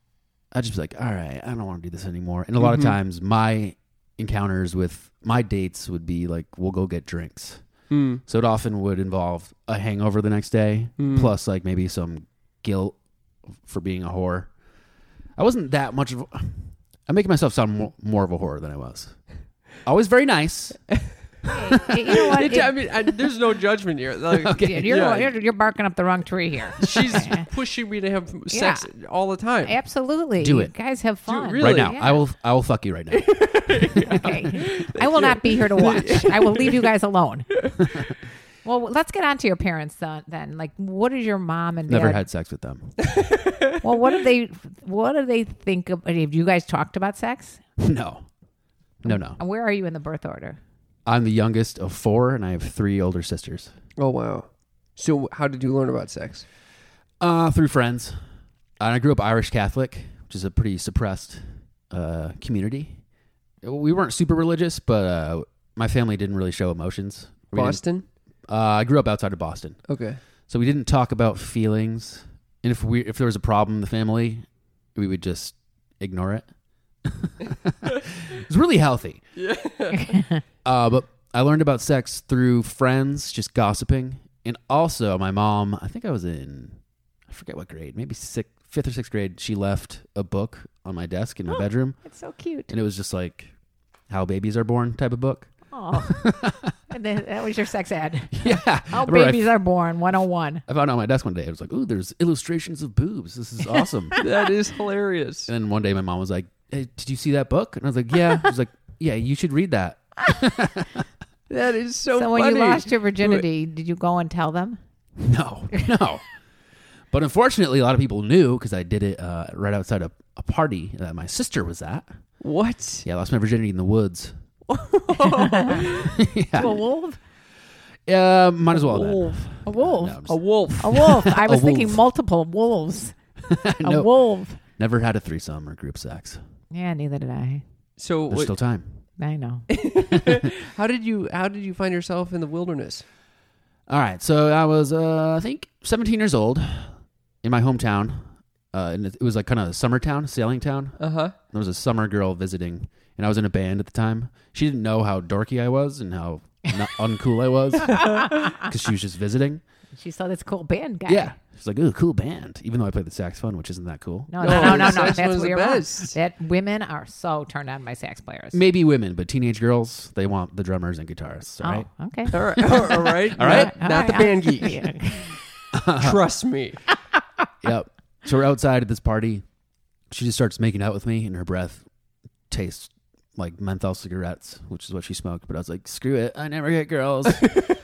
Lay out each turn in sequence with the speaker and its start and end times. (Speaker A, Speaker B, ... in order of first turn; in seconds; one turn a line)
Speaker A: 0.5-7.7
Speaker B: 2.6-2.9
Speaker B: 7.9-8.2
Speaker A: 8.3-13.0
Speaker B: 11.0-11.3
Speaker A: 13.6-14.5
Speaker A: 15.4-19.2
Speaker A: 19.8-21.0
Speaker C: 21.4-22.7
Speaker B: 22.2-25.3
Speaker A: 24.3-25.1
Speaker C: 24.6-27.5
Speaker B: 26.8-29.7
Speaker C: 28.5-28.9
Speaker C: 29.6-32.2
Speaker A: 30.4-30.7
Speaker B: 31.2-31.9
Speaker A: 31.6-33.7
Speaker B: 33.1-36.9
Speaker C: 34.0-37.5
Speaker C: 38.6-42.2
Speaker A: 41.9-43.0
Speaker B: 43.0-43.8
Speaker C: 43.8-47.6
Speaker A: 47.8-48.3
Speaker A: 49.0-49.4
Speaker C: 49.0-50.6
Speaker A: 51.0-53.7
Speaker B: 54.0-56.5
Speaker A: 57.2-58.2
Speaker A: 58.8-63.0
Speaker A: 63.6-67.8
Speaker B: 67.5-68.1
Speaker A: 68.5-69.8
Speaker B: 69.9-70.2
Speaker A: 70.5-76.5
Speaker A: 77.0-79.2
Speaker B: 79.3-80.2
Speaker C: 79.9-80.4
Speaker A: 80.6-92.0
Speaker C: 91.5-92.7
Speaker A: 92.7-93.5
Speaker A: 94.1-96.7
Speaker C: 95.7-96.3
Speaker C: 96.9-100.6
Speaker A: 98.3-99.5
Speaker A: 100.7-104.2
Speaker B: 104.2-105.5
Speaker A: 105.5-111.0
Speaker B: 111.5-113.4
Speaker C: 112.1-114.8
Speaker A: 115.2-116.2
Speaker A: 117.1-122.1
Speaker B: 122.4-123.0
Speaker A: 123.0-124.3
Speaker B: 124.7-126.1
Speaker C: 125.2-125.9
Speaker A: 125.9-126.8
Speaker C: 126.5-127.2
Speaker A: 128.1-132.0
Speaker B: 128.7-129.5
Speaker C: 129.6-130.2
Speaker B: 130.2-131.2
Speaker C: 130.8-133.2
Speaker A: 133.4-134.1
Speaker C: 133.8-134.6
Speaker A: 134.7-136.4
Speaker C: 136.7-137.6
Speaker B: 138.0-138.5
Speaker A: 138.3-138.9
Speaker C: 139.2-139.7
Speaker B: 139.7-143.0
Speaker A: 143.9-159.6
Speaker B: 151.0-151.3
Speaker C: 158.1-158.6
Speaker C: 159.9-161.3
Speaker A: 161.1-165.2
Speaker C: 164.3-168.6
Speaker B: 164.4-166.2
Speaker A: 168.5-173.7
Speaker C: 171.6-175.3
Speaker B: 172.3-175.3
Speaker A: 175.7-176.2
Speaker B: 175.9-176.8
Speaker A: 177.6-179.4
Speaker A: 180.1-181.8
Speaker A: 182.5-187.5